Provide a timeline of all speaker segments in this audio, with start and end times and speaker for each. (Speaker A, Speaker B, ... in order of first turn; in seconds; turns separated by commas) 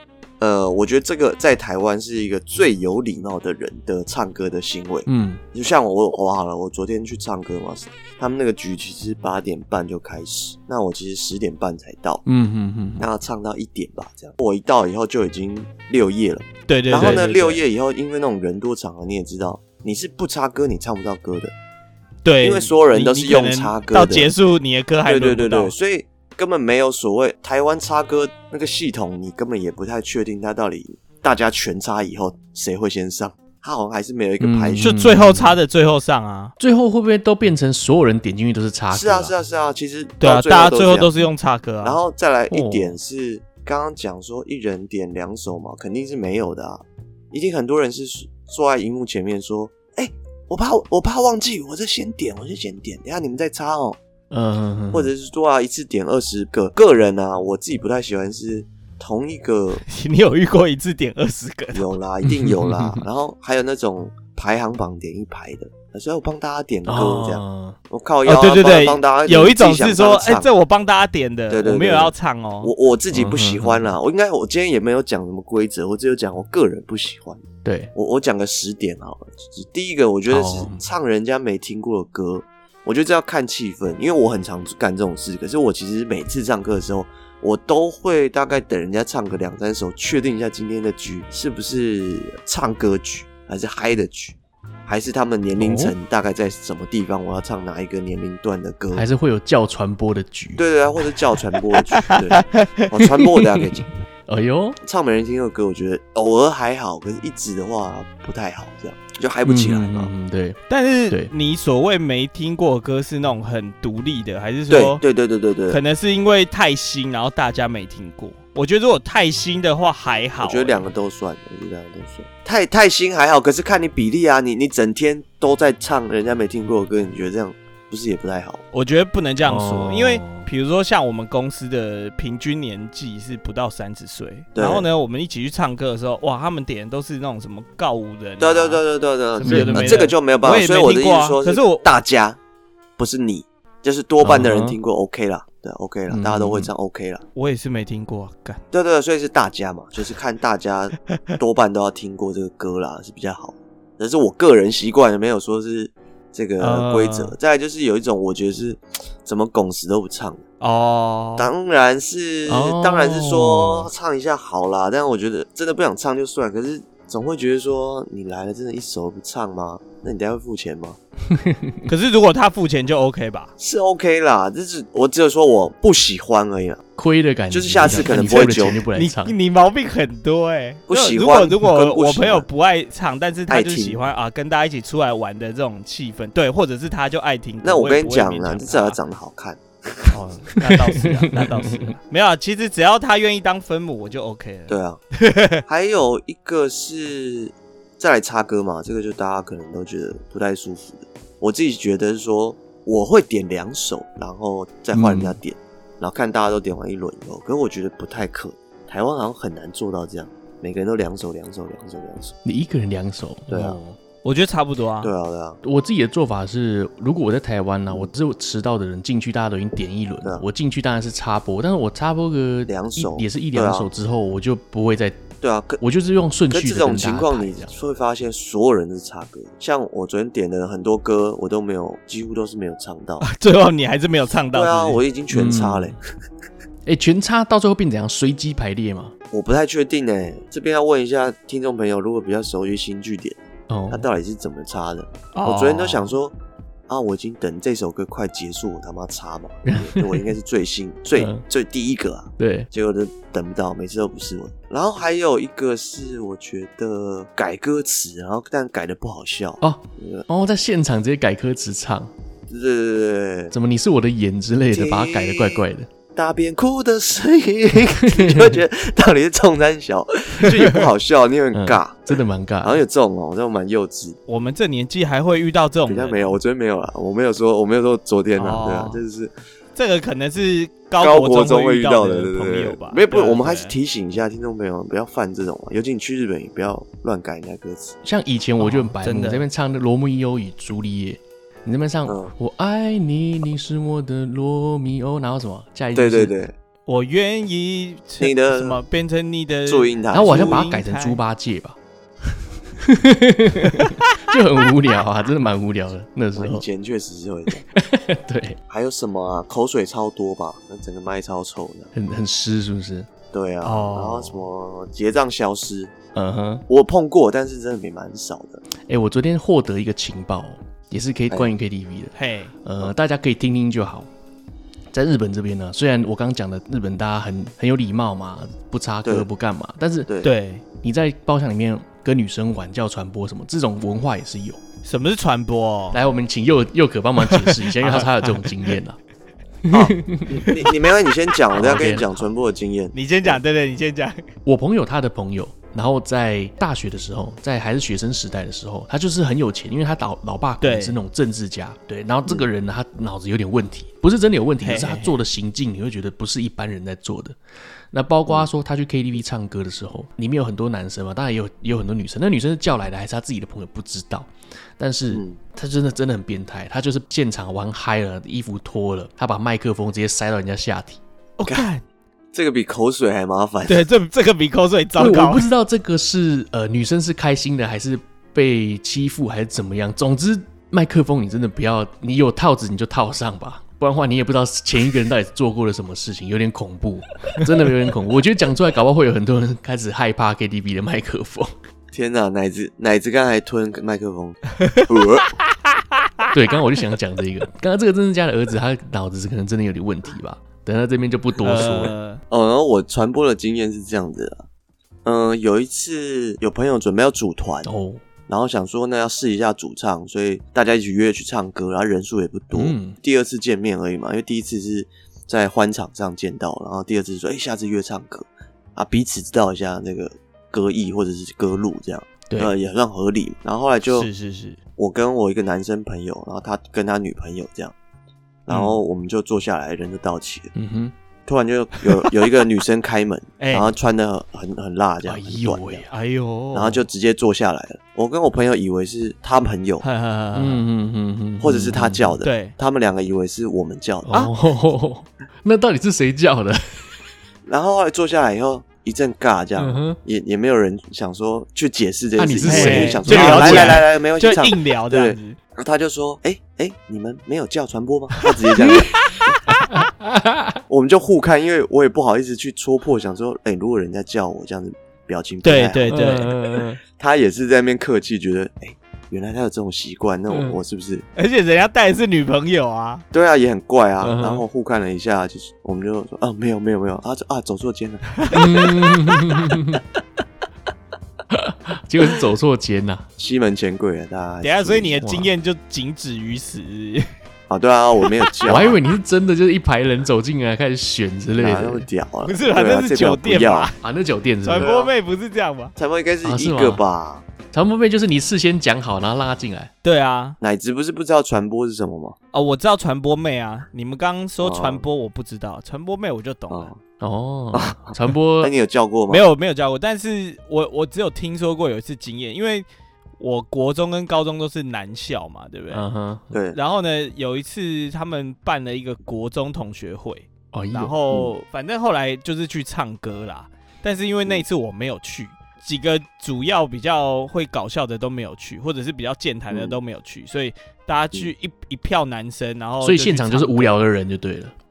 Speaker A: 0.4-12.2, Speaker B: 5.1-5.4, Speaker B: 12.2-13.1, Speaker A: 13.0-21.5, Speaker C: 16.7-17.6, Speaker B: 17.0-17.2, Speaker C: 22.2-25.7, Speaker A: 22.4-24.3, Speaker A: 25.1-35.0, Speaker B: 34.4-35.6, Speaker C: 34.8-36.5, Speaker B: 36.6-39.3, Speaker A: 38.9-41.1, Speaker C: 40.2-42.0, Speaker A: 41.8-54.0, Speaker B: 42.5-43.0, Speaker B: 54.3-55.1, Speaker A: 54.9-59.8, Speaker C: 59.8-61.9, Speaker A: 61.7-70.5, Speaker B: 62.2-63.0, Speaker B: 66.9-67.8, Speaker C: 68.2-72.7, Speaker A: 71.5-77.4, Speaker B: 73.1-73.9, Speaker B: 77.6-77.9, Speaker A: 77.9-94.3, Speaker B: 80.3-80.8, Speaker A: 94.9-99.0, Speaker B: 95.5-95.9, Speaker B: 98.9-100.6, Speaker A: 100.6-103.9, Speaker C: 101.9-102.9, Speaker B: 104.3-104.8, Speaker A: 104.8-110.1, Speaker B: 109.4-110.6, Speaker C: 110.7-115.0, Speaker A: 114.7-115.8, Speaker C: 115.7-120.9, Speaker A: 120.4-128.6, Speaker C: 128.7-138.8, Speaker B: 129.4-130.5, Speaker A: 134.5-134.9, Speaker A: 138.4-142.4, Speaker B: 139.4-140.1, Speaker C: 139.4-141.8, Speaker A: 143.0-147.2, Speaker B: 144.2-144.8, Speaker B: 146.1-146.7, Speaker C: 147.3-148.6, Speaker A: 148.7-160.4, Speaker C: 156.6-157.3, Speaker C: 160.6-161.5, Speaker A: 161.4-171.0, Speaker B: 162.5-163.9, Speaker B: 171.3-171.9, Speaker C: 171.9-173.5, Speaker A: 173.6-176.8, Speaker B: 177.0-179.3, Speaker A: 177.5-178.8, Speaker C: 177.8-189.0, Speaker A: 180.9-182.4, Speaker A: 183.5-184.0, Speaker A: 187.6-190.2, Speaker C: 190.1-195.6, Speaker B: 191.0-191.9, Speaker A: 194.7-195.0, Speaker A: 195.7-212.3, Speaker B: 204.9-205.4, Speaker B: 212.4-214.0, Speaker A: 213.5-213.8, Speaker C: 214.2-215.1, Speaker A: 215.0-215.6, Speaker B: 215.6-225.2, Speaker A: 222.7-223.9, Speaker A: 225.4-225.8, Speaker B: 225.8-227.7, Speaker A: 226.5-233.3, Speaker C: 233.2-235.0, Speaker A: 234.5-236.0, Speaker B: 235.3-236.0, Speaker B: 236.8-239.1, Speaker A: 239.3-246.3, Speaker B: 243.7-244.1, Speaker C: 245.3-246.1, Speaker A: 246.9-260.3, Speaker B: 249.6-250.3, Speaker B: 251.1-251.4, Speaker B: 252.4-252.7, Speaker B: 259.6-262.1, Speaker A: 262.5-263.5, Speaker B: 263.5-265.9, Speaker A: 264.7-265.6, Speaker A: 266.1-274.2, Speaker B: 268.0-268.6, Speaker B: 271.5-272.8, Speaker C: 274.3-276.3, Speaker A: 275.9-279.3, Speaker C: 278.3-279.0, Speaker C: 279.8-283.8, Speaker A: 281.0-288.0, Speaker B: 288.0-296.3, Speaker C: 288.6-289.5, Speaker A: 292.1-292.3, Speaker A: 295.9-296.5, Speaker C: 296.9-301.2, Speaker A: 298.2-298.8, Speaker A: 299.6-300.6, Speaker B: 300.1-301.8, Speaker B: 302.3-306.6, Speaker C: 303.6-304.1, Speaker A: 306.4-307.6, Speaker B: 307.7-308.6, Speaker A: 308.7-311.9, Speaker B: 311.9-313.1, Speaker A: 313.3-315.9, Speaker C: 313.6-314.4, Speaker B: 316.1-316.6, Speaker A: 316.7-318.6, Speaker B: 318.8-324.1, Speaker C: 322.1-322.5, Speaker B: 324.9-330.1, Speaker C: 330.2-330.6, Speaker B: 330.8-334.6, Speaker C: 334.8-336.0, Speaker B: 335.9-339.0, Speaker C: 337.2-338.7, Speaker B: 339.6-340.7, Speaker A: 339.7-343.4, Speaker B: 341.5-342.3, Speaker C: 342.9-344.2, Speaker B: 344.4-357.4, Speaker C: 350.6-350.9, Speaker C: 354.6-355.1, Speaker B: 357.9-371.0, Speaker A: 365.1-365.4, Speaker C: 371.4-371.8, Speaker A: 372.3-373.9, Speaker C: 373.7-375.5, Speaker B: 375.0-391.5, Speaker A: 391.9-395.4, Speaker C: 396.0-396.3, Speaker B: 396.3-401.9, Speaker C: 401.4-402.2, Speaker A: 402.3-404.4, Speaker A: 405.0-407.7, Speaker B: 407.6-408.0, Speaker A: 408.3-424.1, Speaker B: 412.5-413.0, Speaker B: 422.3-422.5, Speaker C: 423.9-424.6, Speaker A: 424.8-427.7, Speaker A: 428.4-430.5, Speaker B: 430.5-430.9, Speaker A: 431.3-435.8, Speaker C: 433.4-433.7, Speaker B: 435.0-435.9, Speaker C: 435.9-436.8, Speaker A: 436.5-439.8, Speaker C: 439.8-440.6, Speaker B: 440.3-442.2, Speaker A: 441.4-444.1, Speaker C: 442.2-442.5, Speaker B: 444.1-447.1, Speaker A: 447.4-459.4, Speaker B: 449.6-450.0, Speaker B: 452.1-453.9, Speaker C: 452.4-455.4, Speaker B: 458.6-460.6, Speaker A: 460.7-466.3, Speaker C: 465.4-466.3, Speaker B: 465.9-466.8, Speaker A: 466.9-471.0, Speaker B: 470.3-470.6, Speaker C: 471.1-473.0, Speaker A: 473.1-478.9, Speaker B: 474.0-474.4, Speaker B: 478.3-479.8, Speaker B: 481.3-483.1, Speaker A: 483.2-485.0, Speaker C: 484.4-487.1, Speaker B: 485.0-485.3, Speaker A: 487.5-488.8, Speaker B: 488.4-491.9, Speaker A: 491.4-493.7, Speaker C: 492.2-493.8, Speaker B: 493.8-494.7, Speaker C: 494.4-495.7, Speaker A: 494.6-494.9, Speaker A: 495.8-497.2, Speaker B: 496.2-496.8, Speaker B: 497.5-499.7, Speaker C: 499.8-500.4, Speaker A: 500.4-502.1, Speaker C: 502.3-506.7, Speaker A: 504.4-504.8, Speaker A: 506.5-506.8, Speaker B: 507.0-508.5, Speaker A: 507.5-509.2, Speaker C: 509.1-512.6, Speaker C: 513.2-515.8, Speaker B: 515.7-516.3, Speaker A: 516.3-516.6, Speaker C: 516.5-533.7, Speaker B: 520.5-521.0, Speaker A: 529.5-529.8, Speaker B: 532.8-534.5